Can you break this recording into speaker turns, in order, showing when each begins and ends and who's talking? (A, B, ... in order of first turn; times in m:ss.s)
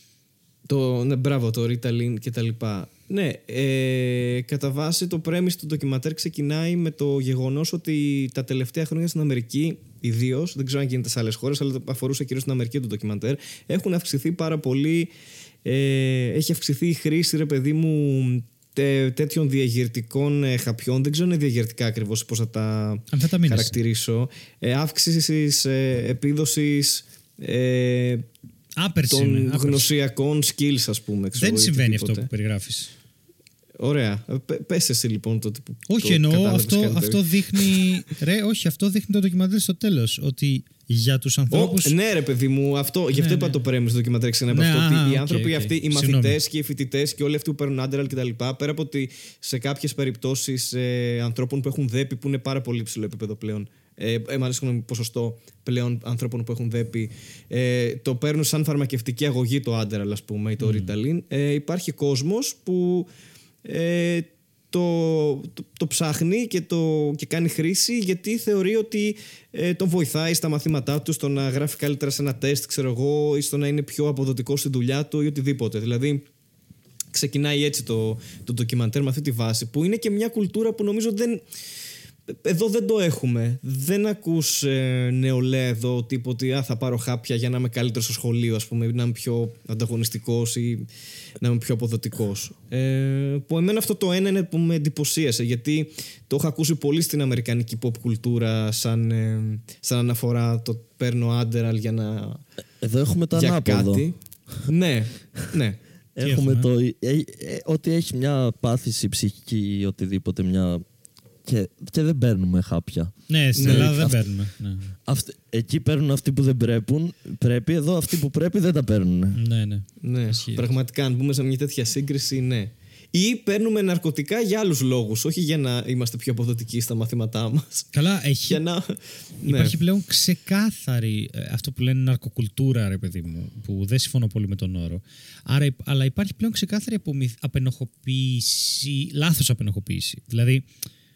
0:00.7-0:15.1 A
0:15.6-0:28.2 A
0:23.1-0:23.7 B
0:28.8-0:29.8 B
0:29.1-0:32.3 A
0:31.4-0:32.9 B
0:33.8-0:38.0 A
0:35.9-0:41.9 B
0:41.5-1:03.1 A
0:43.1-0:43.6 B
0:44.5-0:46.4 B
1:00.6-1:00.9 B
1:03.6-1:16.2 A
1:17.1-1:21.4 A
1:22.3-1:30.9 A
1:31.4-1:42.4 A
1:42.8-1:44.0 C
1:43.3-1:45.8 A
1:46.2-1:50.8 C
1:46.2-1:46.7 B
1:51.4-1:54.2 C
1:53.3-1:54.9 B
1:53.6-1:54.0 A
1:55.0-1:59.4 C
1:59.3-2:00.6 B
2:00.0-2:07.9 A
2:07.9-2:08.6 B
2:08.5-2:09.8 A
2:09.4-2:20.6 B